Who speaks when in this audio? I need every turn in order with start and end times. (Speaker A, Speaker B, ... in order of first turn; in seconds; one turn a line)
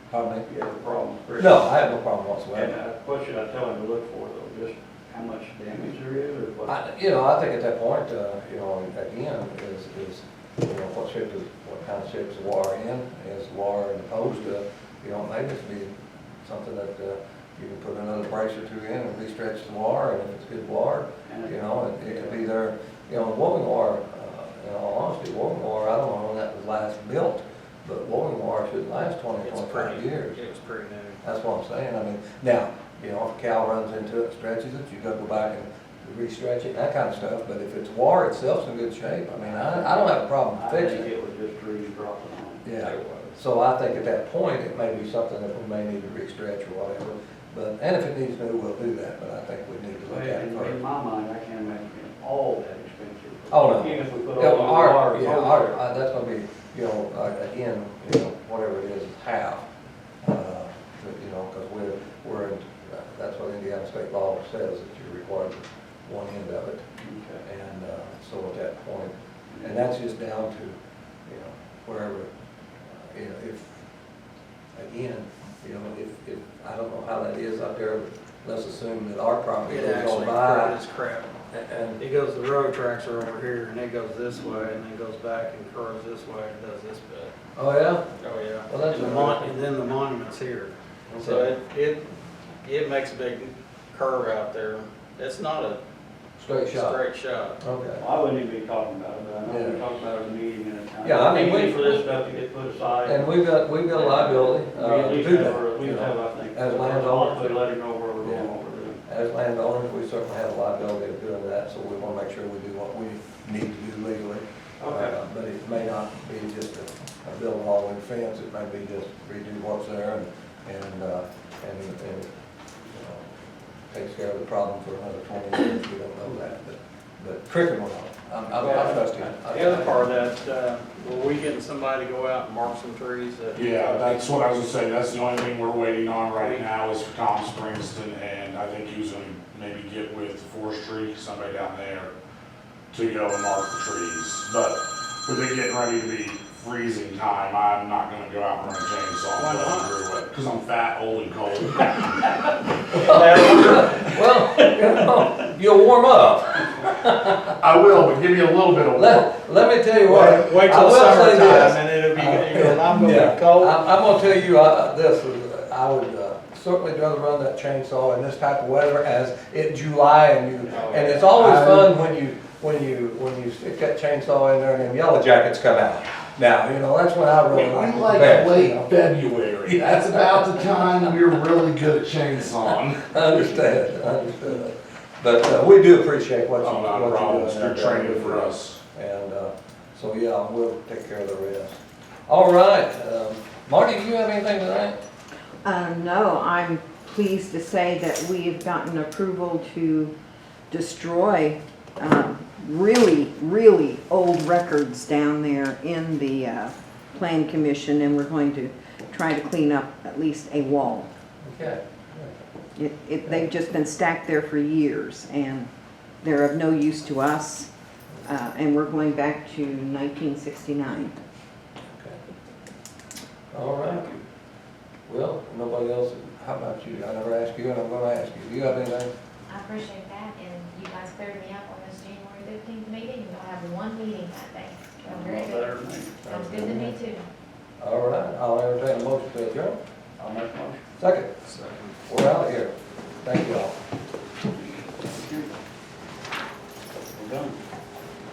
Speaker A: 0.1-0.5
Speaker B: 0.4-1.6
Speaker A: 1.4-2.8
Speaker B: 2.5-6.7
Speaker A: 6.7-15.9
Speaker A: 16.4-30.4
Speaker B: 21.2-22.4
Speaker C: 29.4-31.2
Speaker A: 31.2-41.1
Speaker B: 39.4-42.6
Speaker A: 42.6-50.8
Speaker B: 50.0-55.8
Speaker A: 53.5-59.6
Speaker A: 60.2-66.8
Speaker B: 67.0-67.4
Speaker A: 67.4-72.3
Speaker A: 72.9-73.8
Speaker A: 74.7-80.8
Speaker C: 79.7-81.3
Speaker A: 81.5-82.0
Speaker C: 82.0-87.3
Speaker A: 87.5-88.0
Speaker C: 88.2-92.0
Speaker A: 88.7-89.5
Speaker A: 91.1-91.5
Speaker C: 92.6-95.8
Speaker A: 96.4-97.0
Speaker C: 96.7-97.6
Speaker A: 97.6-98.0
Speaker B: 98.0-103.3
Speaker A: 99.5-99.8
Speaker A: 101.0-102.0
Speaker A: 103.0-107.6
Speaker B: 103.9-109.0
Speaker A: 108.2-108.5
Speaker A: 109.0-122.3
Speaker B: 114.8-115.1
Speaker A: 122.9-123.2
Speaker A: 123.9-129.9
Speaker C: 128.6-129.0
Speaker C: 129.5-134.3
Speaker D: 133.5-142.1
Speaker C: 136.3-136.6
Speaker D: 142.9-152.3
Speaker C: 149.4-149.9
Speaker A: 152.9-157.5
Speaker C: 153.0-155.2
Speaker D: 157.6-159.2
Speaker A: 158.9-178.9
Speaker C: 160.0-163.8
Speaker C: 170.7-171.3
Speaker B: 170.8-171.1
Speaker D: 171.3-171.9
Speaker D: 177.5-183.1
Speaker A: 179.7-180.6
Speaker A: 183.1-195.0
Speaker D: 186.6-188.8
Speaker E: 195.6-200.1
Speaker E: 200.7-211.1
Speaker A: 211.4-212.4
Speaker E: 212.8-215.7
Speaker E: 216.2-217.7
Speaker E: 218.2-221.2
Speaker A: 221.9-222.2
Speaker A: 223.5-224.2
Speaker A: 225.1-229.1
Speaker F: 229.5-237.2
Speaker B: 235.0-236.2
Speaker A: 236.2-237.0
Speaker A: 237.8-239.8
Speaker B: 240.2-240.8
Speaker A: 241.0-241.3
Speaker C: 241.5-241.9
Speaker A: 242.1-243.8
Speaker B: 245.0-245.5
Speaker B: 247.0-247.6